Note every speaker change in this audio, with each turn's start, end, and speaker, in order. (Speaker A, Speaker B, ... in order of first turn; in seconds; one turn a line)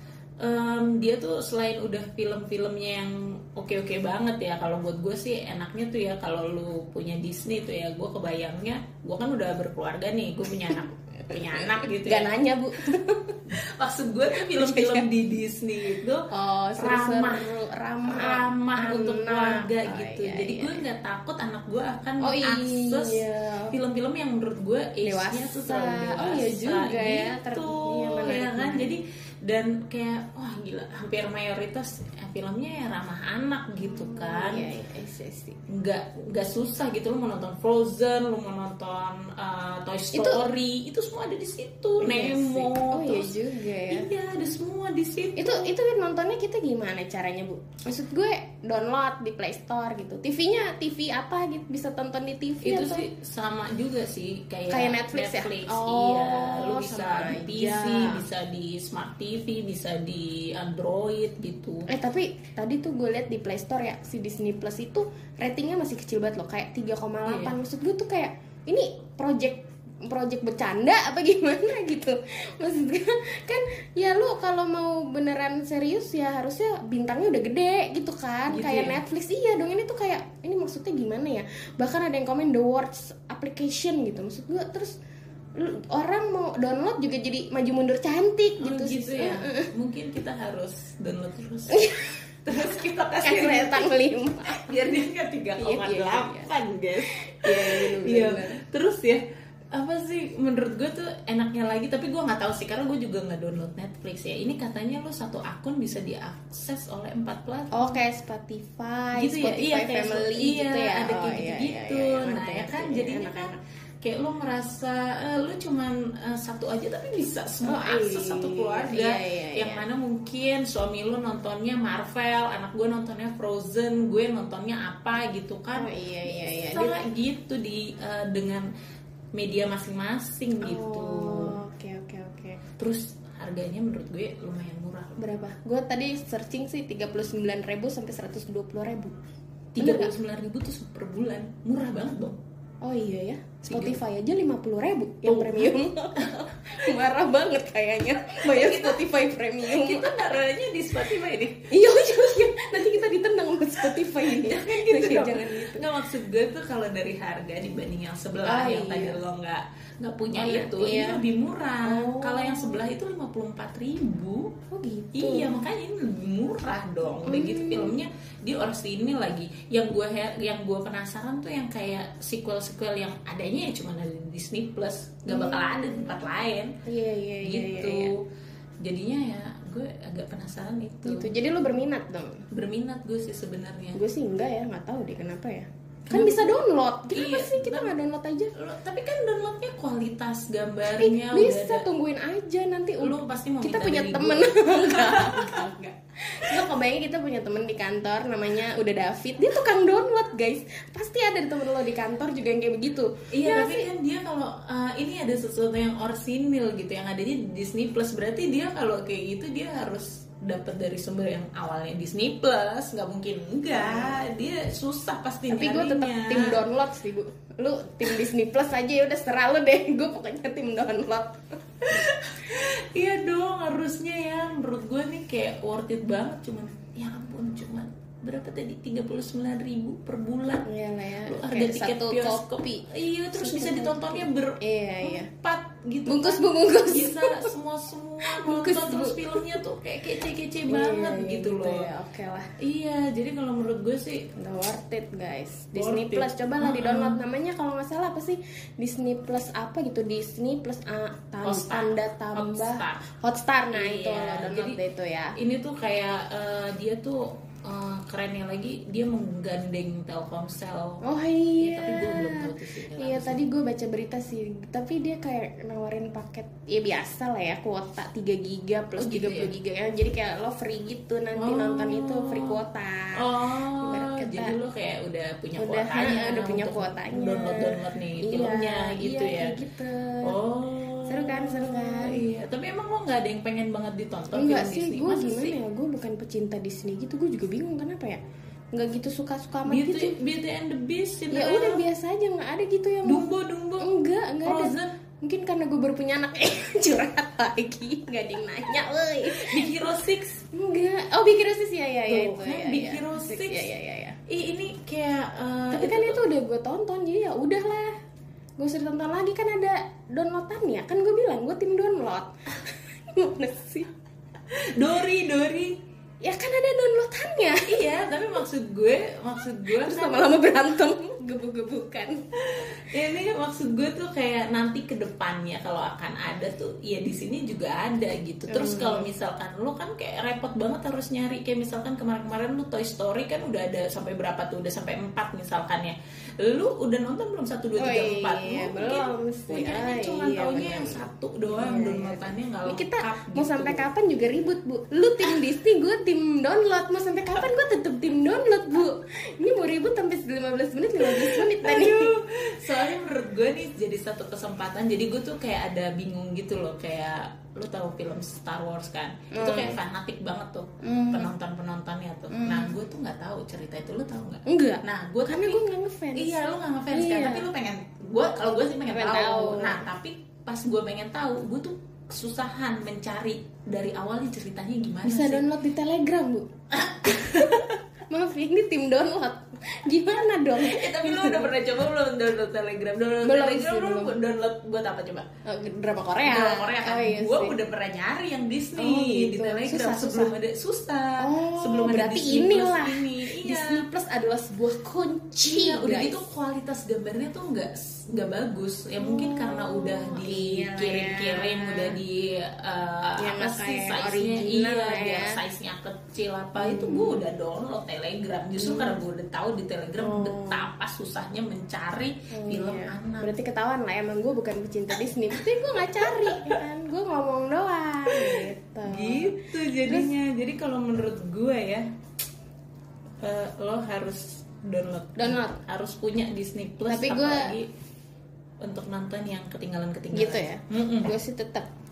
Speaker A: 0.4-12.3
Speaker B: 11.3-13.5
Speaker A: 13.5-16.2
Speaker B: 14.3-15.1
Speaker B: 16.3-20.8
Speaker A: 16.8-17.5
Speaker A: 18.0-34.7
Speaker B: 22.2-23.8
Speaker B: 25.0-28.9
Speaker B: 34.0-35.6
Speaker A: 35.7-45.7
Speaker B: 40.1-40.5
Speaker B: 42.0-44.1
Speaker B: 45.4-53.1
Speaker A: 52.6-61.9
Speaker B: 54.7-58.2
Speaker B: 61.9-85.0
Speaker A: 67.2-67.5
Speaker A: 78.5-79.0
Speaker B: 85.5-89.7
Speaker A: 88.6-93.9
Speaker B: 91.7-92.1
Speaker B: 93.2-94.7
Speaker A: 94.5-108.0
Speaker B: 95.6-96.5
Speaker B: 97.0-98.6
Speaker B: 107.7-113.6
Speaker A: 109.1-128.7
Speaker B: 117.6-119.8
Speaker B: 125.7-127.0
Speaker A: 129.3-131.6
Speaker B: 130.6-132.6
Speaker A: 132.8-135.2
Speaker B: 135.2-139.2
Speaker A: 139.7-142.4
Speaker B: 139.8-140.2
Speaker B: 142.8-150.2
Speaker A: 143.6-144.0
Speaker A: 145.2-146.6
Speaker A: 148.4-152.1
Speaker B: 151.7-155.8
Speaker A: 153.9-164.6
Speaker B: 158.4-159.2
Speaker B: 160.3-161.2
Speaker B: 161.8-162.9
Speaker B: 164.7-165.6
Speaker A: 165.1-176.8
Speaker B: 167.2-168.0
Speaker B: 175.3-175.9
Speaker B: 176.8-178.1
Speaker A: 177.4-178.3
Speaker A: 178.8-181.3
Speaker B: 181.0-182.5
Speaker A: 182.5-184.0
Speaker B: 183.9-188.5
Speaker A: 186.1-187.9
Speaker A: 188.5-191.9
Speaker B: 190.9-203.9
Speaker A: 193.0-195.6
Speaker A: 203.3-216.6
Speaker B: 213.7-214.2
Speaker B: 215.5-221.4
Speaker A: 221.8-230.7
Speaker B: 230.6-235.3
Speaker A: 231.2-241.9
Speaker B: 236.1-237.5
Speaker B: 238.2-239.6
Speaker B: 240.7-242.5
Speaker A: 242.6-244.3
Speaker B: 244.3-255.3
Speaker A: 245.7-247.2
Speaker A: 251.4-253.1
Speaker A: 253.7-254.8
Speaker A: 255.4-261.0
Speaker B: 261.0-274.6
Speaker A: 261.6-263.4
Speaker A: 268.9-269.5
Speaker A: 271.3-272.6
Speaker A: 273.1-279.6
Speaker B: 275.6-280.4
Speaker A: 280.2-285.6
Speaker B: 281.1-282.2
Speaker B: 284.3-288.2
Speaker B: 288.7-290.2
Speaker A: 289.6-291.8
Speaker B: 291.3-293.2
Speaker A: 293.0-293.9
Speaker B: 293.8-299.8
Speaker A: 294.4-295.0
Speaker A: 299.2-300.4
Speaker B: 300.5-304.2
Speaker A: 302.1-303.7
Speaker A: 304.3-306.2
Speaker B: 305.7-307.9
Speaker B: 308.6-313.9
Speaker A: 314.5-315.8
Speaker B: 316.2-318.0
Speaker A: 317.5-320.7
Speaker B: 319.7-322.2
Speaker A: 322.4-343.9
Speaker B: 328.5-329.1
Speaker B: 337.8-352.2
Speaker A: 351.0-365.6
Speaker B: 359.3-359.8
Speaker B: 360.8-361.3
Speaker B: 362.3-362.8
Speaker B: 364.4-367.5
Speaker A: 366.1-375.4
Speaker B: 368.9-369.8
Speaker B: 375.0-376.5
Speaker A: 376.7-377.8
Speaker B: 377.1-381.5
Speaker A: 380.5-385.3
Speaker B: 383.2-384.1
Speaker B: 385.4-387.6
Speaker A: 386.2-393.9
Speaker B: 388.8-390.3
Speaker B: 391.2-396.2
Speaker A: 395.4-413.3
Speaker B: 399.0-402.0
Speaker B: 403.2-405.4
Speaker B: 406.6-407.2
Speaker B: 408.6-409.0
Speaker B: 410.0-410.7
Speaker B: 412.3-420.1
Speaker A: 415.9-416.6
Speaker A: 418.1-421.9
Speaker A: 423.2-427.7
Speaker B: 425.2-425.6
Speaker B: 426.8-427.6
Speaker A: 428.6-431.1
Speaker B: 430.1-431.7